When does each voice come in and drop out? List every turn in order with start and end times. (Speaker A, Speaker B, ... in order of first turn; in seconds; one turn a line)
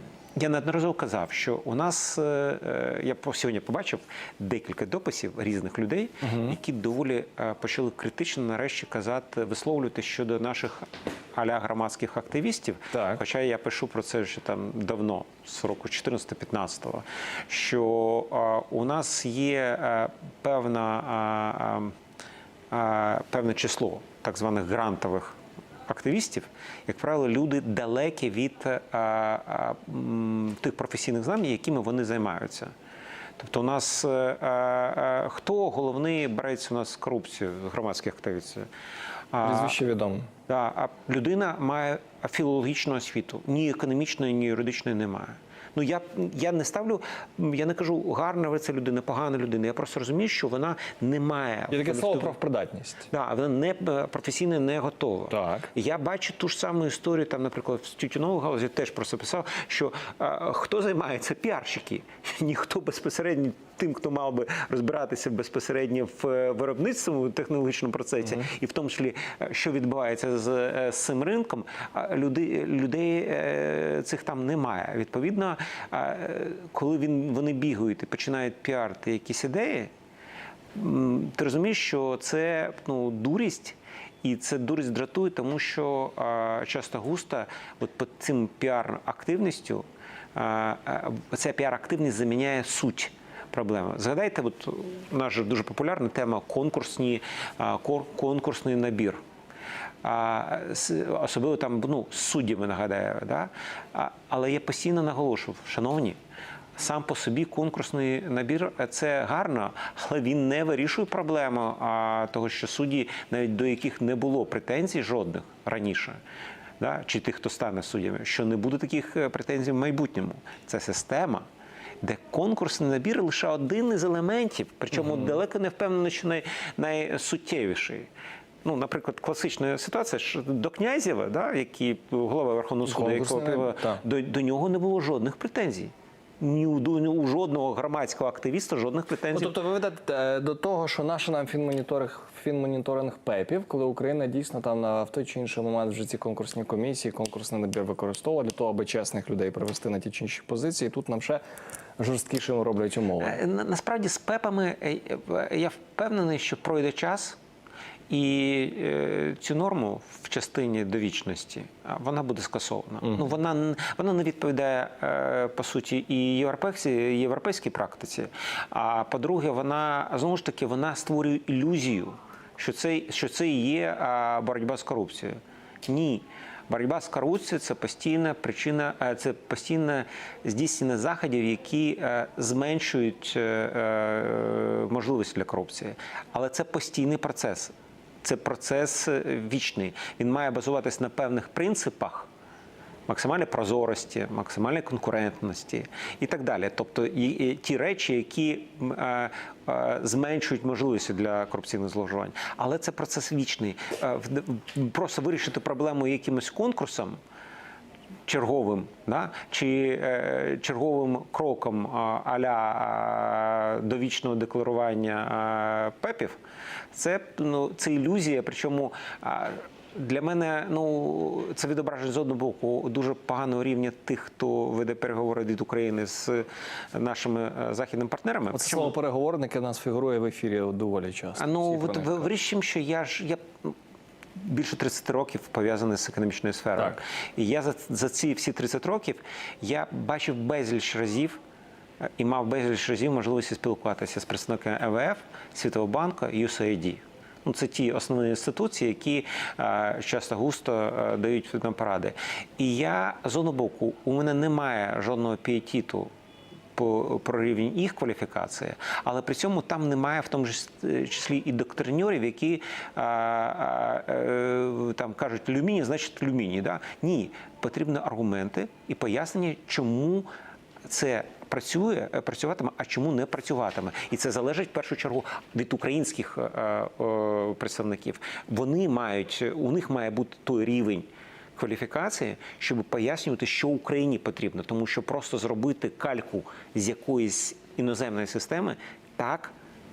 Speaker A: 0.4-21.9
Speaker A: 22.7-32.7
Speaker A: 33.4-38.7
Speaker A: 39.3-39.8
Speaker B: 39.4-40.3
Speaker A: 40.5-52.3
Speaker B: 51.7-53.1
Speaker A: 53.1-79.9
Speaker B: 55.3-55.7
Speaker A: 80.7-99.2
Speaker A: 100.0-106.2
Speaker A: 106.8-116.2
Speaker A: 116.8-121.5
Speaker A: 122.0-128.1
Speaker A: 128.6-139.5
Speaker B: 132.8-134.0
Speaker B: 139.3-151.4
Speaker B: 152.0-153.4
Speaker A: 153.2-157.4
Speaker A: 158.1-192.3
Speaker A: 193.1-207.2
Speaker A: 208.3-216.4
Speaker A: 216.9-228.9
Speaker B: 228.5-232.3
Speaker A: 231.4-233.7
Speaker A: 234.4-241.4
Speaker A: 242.2-256.1
Speaker A: 256.8-270.3
Speaker A: 270.9-289.5